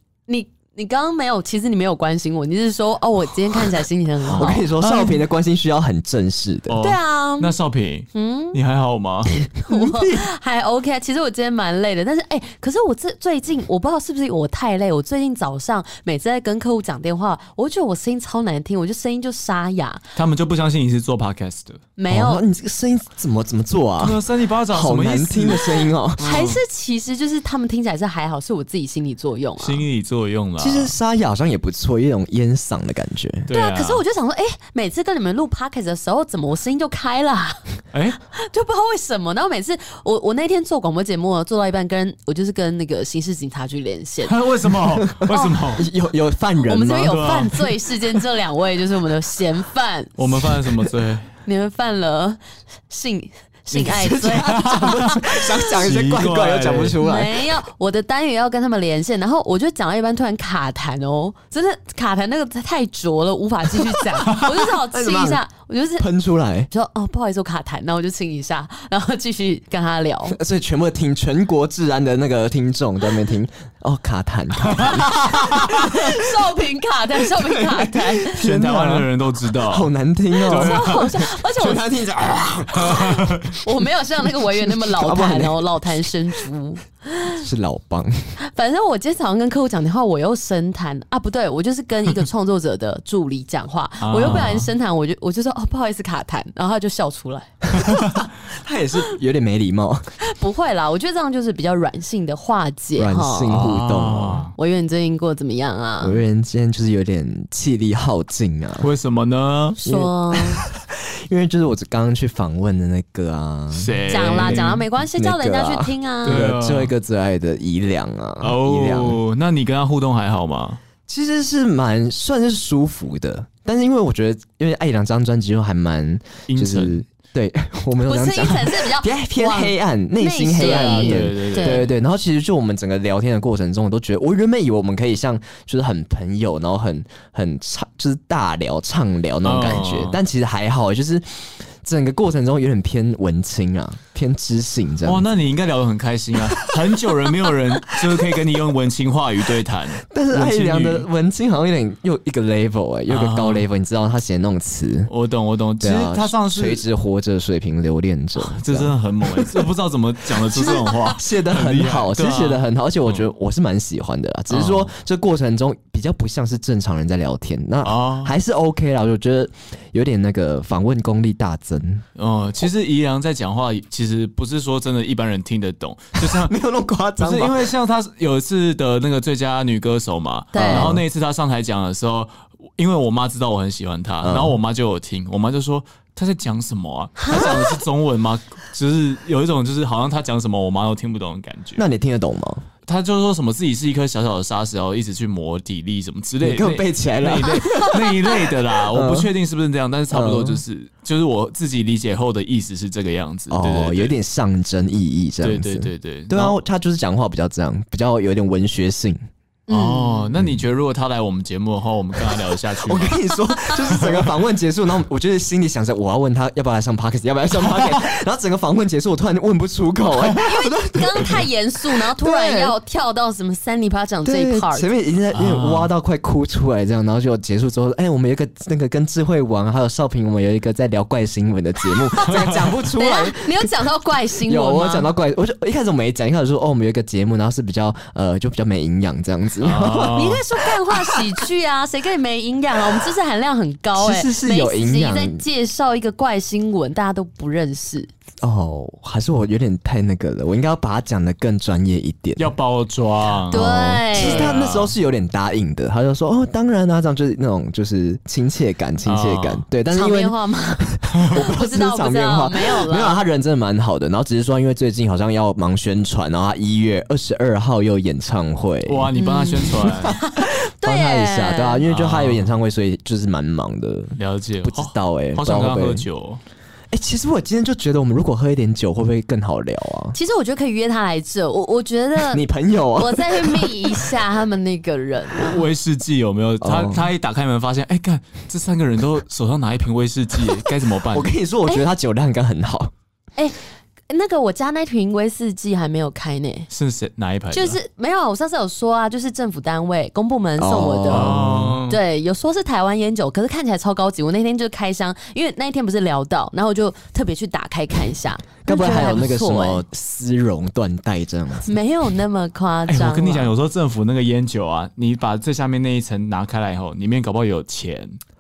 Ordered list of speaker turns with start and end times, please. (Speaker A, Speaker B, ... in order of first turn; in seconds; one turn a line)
Speaker A: 0.3-4.7
Speaker B: 4.3-5.2
Speaker C: 4.3-6.8
Speaker B: 6.7-9.3
Speaker A: 6.8-7.5
Speaker A: 8.1-8.6
Speaker A: 9.5-20.0
Speaker C: 9.7-10.2
Speaker B: 20.2-21.8
Speaker A: 22.0-22.4
Speaker C: 22.1-26.2
Speaker B: 24.0-26.6
Speaker A: 26.2-29.8
Speaker B: 29.6-30.9
Speaker C: 30.6-33.5
Speaker B: 33.5-34.0
Speaker A: 33.5-37.6
Speaker B: 37.9-38.2
Speaker A: 38.3-44.4
Speaker B: 44.3-45.9
Speaker C: 45.0-47.3
Speaker A: 46.6-50.2
Speaker B: 47.0-47.7
Speaker B: 50.2-51.3
Speaker A: 51.5-55.0
Speaker C: 53.8-57.4
Speaker B: 53.8-55.1
Speaker B: 55.7-57.0
Speaker A: 57.0-66.1
Speaker C: 64.9-65.4
Speaker C: 66.0-66.7
Speaker A: 66.7-70.4
Speaker C: 70.3-76.2
Speaker B: 74.6-75.7
Speaker A: 75.5-78.3
Speaker C: 77.7-79.1
Speaker B: 78.2-79.9
Speaker C: 79.7-83.2
Speaker A: 80.4-81.8
Speaker B: 80.5-81.0
Speaker A: 82.8-87.4
Speaker B: 82.8-83.5
Speaker C: 84.8-85.7
Speaker C: 87.4-88.3
Speaker A: 88.5-98.0
Speaker B: 94.0-94.7
Speaker C: 97.8-100.1
Speaker A: 100.2-103.7
Speaker C: 103.0-104.5
Speaker B: 103.5-104.5
Speaker A: 104.6-106.2
Speaker C: 106.0-108.9
Speaker B: 108.8-109.8
Speaker C: 109.8-119.2
Speaker A: 109.8-110.6
Speaker B: 113.7-114.8
Speaker A: 114.1-116.5
Speaker B: 116.2-116.9
Speaker B: 118.4-120.8
Speaker C: 121.1-145.3
Speaker B: 126.5-127.0
Speaker A: 128.1-131.9
Speaker B: 130.6-131.9
Speaker B: 139.4-140.2
Speaker B: 145.1-151.1
Speaker C: 150.1-155.1
Speaker B: 153.1-153.7
Speaker B: 155.1-156.8
Speaker C: 155.8-159.7
Speaker B: 158.4-163.3
Speaker C: 160.3-172.1
Speaker B: 164.5-164.9
Speaker B: 167.8-168.3
Speaker B: 172.2-176.5
Speaker C: 176.2-177.7
Speaker B: 177.2-191.8
Speaker A: 180.5-180.9
Speaker C: 180.6-181.0
Speaker C: 184.2-184.6
Speaker A: 187.2-187.5
Speaker C: 191.8-192.7
Speaker B: 192.9-204.1
Speaker C: 196.4-199.3
Speaker C: 200.1-200.6
Speaker C: 203.5-209.2
Speaker B: 205.4-206.6
Speaker A: 209.7-210.3
Speaker B: 209.7-214.2
Speaker C: 212.8-221.4
Speaker A: 220.3-224.9
Speaker C: 222.2-222.8
Speaker C: 224.2-233.7
Speaker B: 225.3-225.9
Speaker B: 232.3-232.6
Speaker A: 233.0-235.1
Speaker C: 234.5-240.3
Speaker B: 239.6-240.4
Speaker A: 240.1-248.1
Speaker C: 244.0-245.4
Speaker C: 248.4-252.5
Speaker B: 252.4-254.9
Speaker A: 253.5-254.5
Speaker C: 254.1-269.1
Speaker B: 259.0-259.6
Speaker A: 259.9-263.2
Speaker B: 268.9-270.1
Speaker A: 269.1-271.8
Speaker C: 269.7-276.1
Speaker B: 271.9-272.5
Speaker B: 274.2-276.4
Speaker C: 276.9-280.2
Speaker A: 280.1-282.4
Speaker C: 282.2-283.9
Speaker A: 283.0-285.6
Speaker B: 285.4-291.3
Speaker C: 286.6-287.1
Speaker C: 291.1-292.9
Speaker A: 294.1-296.7
Speaker B: 296.7-297.8
Speaker A: 297.5-309.8
Speaker C: 300.6-301.8
Speaker B: 301.1-302.0
Speaker C: 308.6-311.7
Speaker A: 311.7-313.5
Speaker B: 312.9-318.2